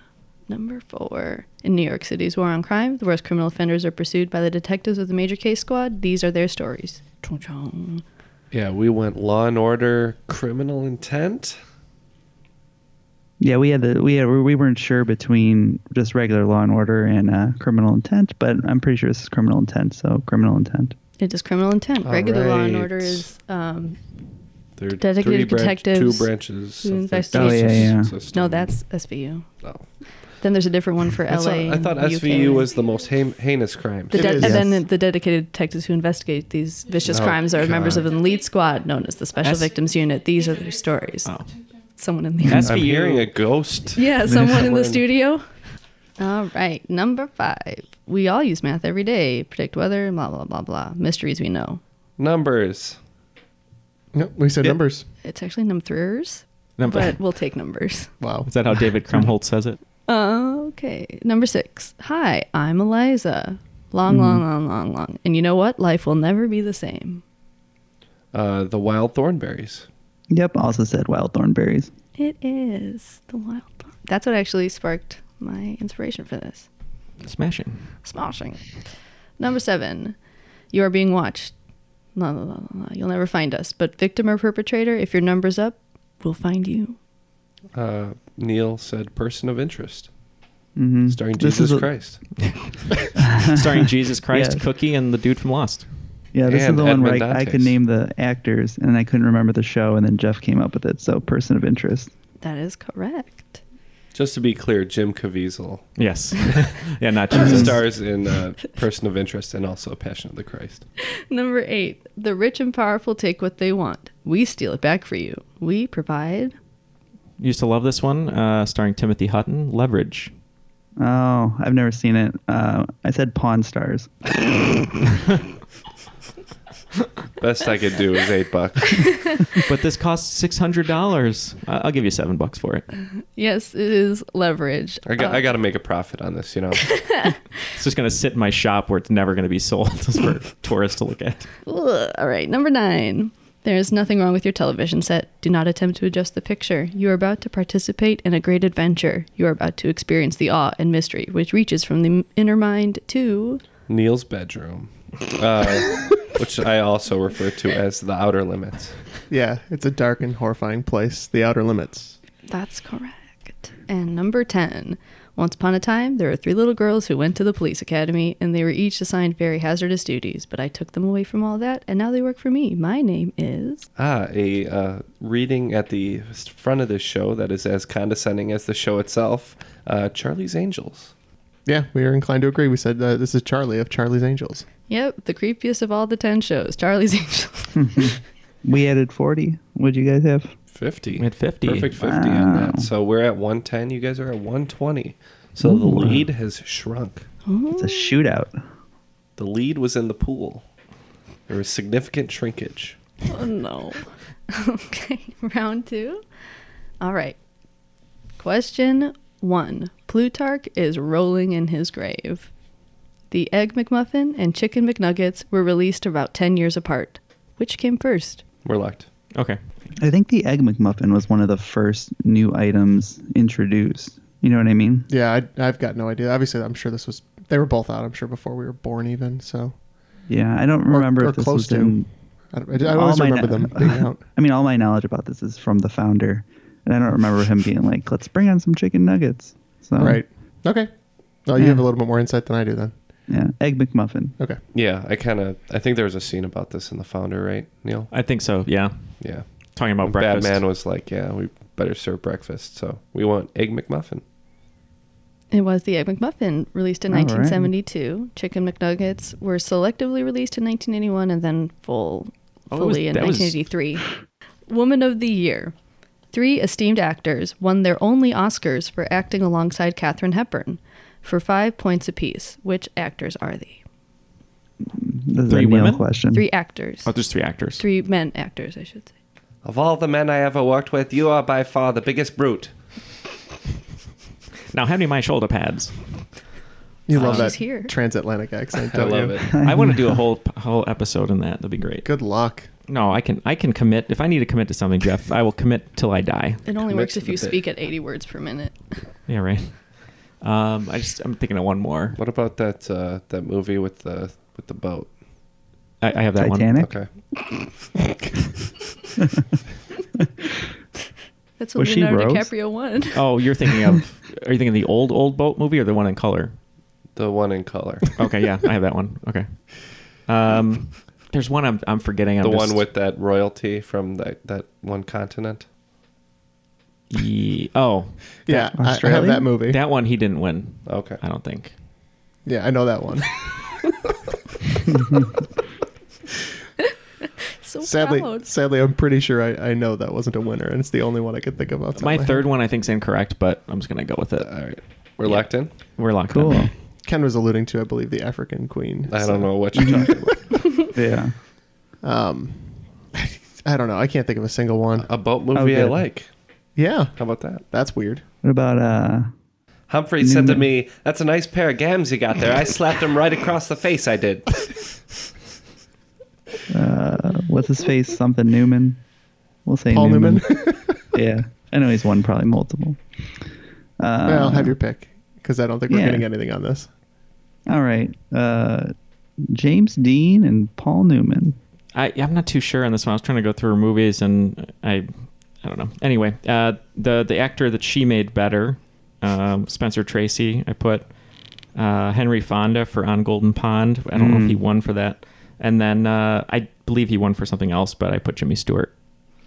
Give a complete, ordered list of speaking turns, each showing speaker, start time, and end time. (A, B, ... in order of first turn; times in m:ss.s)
0:00.5-0:08.0 A
0:08.5-0:11.6 B
0:13.4-0:20.9 C
0:21.2-0:24.0 A
0:22.0-0:23.3 B
0:24.8-0:28.8 B
0:25.0-0:29.5 A
0:27.3-0:28.1 C
0:30.4-0:32.7 A
0:31.3-0:34.4 B
0:34.1-0:34.6 D
0:34.1-0:41.3 A
0:34.4-0:34.8 C
0:37.0-0:38.1 B
0:39.4-0:39.7 E
0:41.2-0:41.5 E
0:42.0-0:42.7 A
0:42.5-0:42.8 C
0:42.5-0:43.3 E
0:42.6-0:45.0 B
0:43.9-0:45.4 A
0:46.2-0:51.8 A
0:52.2-0:53.0 B
0:54.1-0:55.0 D
0:55.2-0:58.1 A
0:56.8-0:57.2 E
0:58.2-0:58.5 D
0:58.4-0:59.8 E
0:58.8-0:59.3 C
1:00.1-1:07.2 A
1:04.1-1:04.4 C
1:08.3-1:09.9 B
1:10.3-1:11.9 C
1:12.2-1:16.7 A
1:17.2-1:17.9 E
1:18.0-1:18.8 A
1:19.4-1:20.2 A
1:20.7-1:21.5 A
1:22.1-1:27.0 A
1:27.7-1:30.1 B
1:30.8-1:31.9 C
1:31.1-1:32.2 B
1:32.4-1:32.9 E
1:33.2-1:33.8 C
1:33.4-1:35.9 E
1:34.3-1:34.6 C
1:36.3-1:42.1 C
1:36.5-1:37.7 B
1:42.4-1:43.6 A
1:44.1-1:45.9 B
1:46.0-1:47.8 E
1:47.3-1:50.8 B
1:47.4-1:47.7 C
1:51.2-1:56.5 A
1:57.4-2:00.3 E
2:01.0-2:04.1 C
2:07.4-2:09.3 B
2:09.6-2:12.8 E
2:13.3-2:15.5 A
2:15.0-2:17.1 B
2:16.9-2:17.4 A
2:17.7-2:21.5 E
2:21.6-2:33.6 A
2:33.9-2:39.0 B
2:39.3-2:42.2 D
2:42.5-2:53.9 A
2:54.0-3:01.1 B
3:01.6-3:04.6 D
3:04.9-3:08.1 A
3:07.8-3:10.5 C
3:10.7-3:17.3 B
3:11.2-3:11.9 E
3:12.0-3:12.9 C
3:15.6-3:16.2 C
3:17.4-3:18.2 A
3:17.8-3:18.6 C
3:19.4-3:20.6 B
3:21.5-3:23.0 B
3:23.2-3:26.2 A
3:27.0-3:27.4 A
3:28.4-3:32.5 A
3:33.3-3:38.4 A
3:38.6-3:39.1 B
3:40.0-3:45.1 C
3:45.1-3:49.8 D
3:50.3-3:52.1 C
3:50.9-3:54.2 D
3:52.8-4:00.2 C
4:00.0-4:02.9 D
4:01.6-4:01.9 C
4:03.3-4:04.4 C
4:04.7-4:08.1 B
4:08.1-4:10.6 E
4:09.2-4:14.2 B
4:15.5-4:24.1 A
4:17.1-4:17.7 C
4:22.7-4:23.7 E
4:24.7-4:25.7 A
4:26.3-4:33.8 A
4:34.8-4:36.5 C
4:35.5-4:36.0 E
4:36.3-4:37.1 A
4:37.0-4:37.8 E
4:37.8-4:39.1 A
4:39.6-4:42.7 B
4:44.7-4:46.4 E
4:47.1-4:49.4 D
4:47.1-4:47.6 E
4:47.1-4:47.9 A
4:48.9-4:49.5 B
4:49.5-4:50.2 C
4:49.6-4:52.1 E
4:52.0-4:52.7 D
4:52.9-4:56.6 E
4:56.6-4:59.0 A
4:56.8-4:57.6 B
4:59.3-5:02.2 E
5:02.1-5:05.2 B
5:06.0-5:06.8 E
5:06.4-5:06.9 C
5:06.8-5:07.1 B
5:11.6-5:13.2 A
5:11.8-5:12.5 C
5:13.1-5:16.5 E
5:17.1-5:18.1 B
5:18.2-5:22.8 E
5:22.4-5:25.6 B
5:27.1-5:28.3 E
5:28.4-5:29.8 D
5:28.5-5:29.5 C
5:29.7-5:31.7 E
5:30.8-5:31.2 B
5:32.4-5:33.4 D
5:37.6-5:38.5 A
5:37.8-5:42.4 D
5:42.0-5:46.7 E
5:44.4-5:45.7 B
5:46.3-5:46.7 C
5:47.0-5:50.2 D
5:49.1-5:50.4 B
5:49.8-5:50.1 C
5:50.9-5:51.3 C
5:52.0-5:55.1 D
5:55.0-5:56.3 B
5:55.5-5:56.0 C
5:56.7-5:58.2 D
5:57.2-5:57.6 B
5:58.4-5:59.3 C
5:59.9-6:04.7 B
6:00.2-6:00.6 C
6:06.7-6:09.0 C
6:09.6-6:13.4 C
6:09.9-6:11.1 D
6:14.0-6:14.8 C
6:14.2-6:16.9 D
6:15.9-6:16.3 C
6:17.7-6:21.6 C
6:21.9-6:38.9 E
6:34.1-6:34.6 C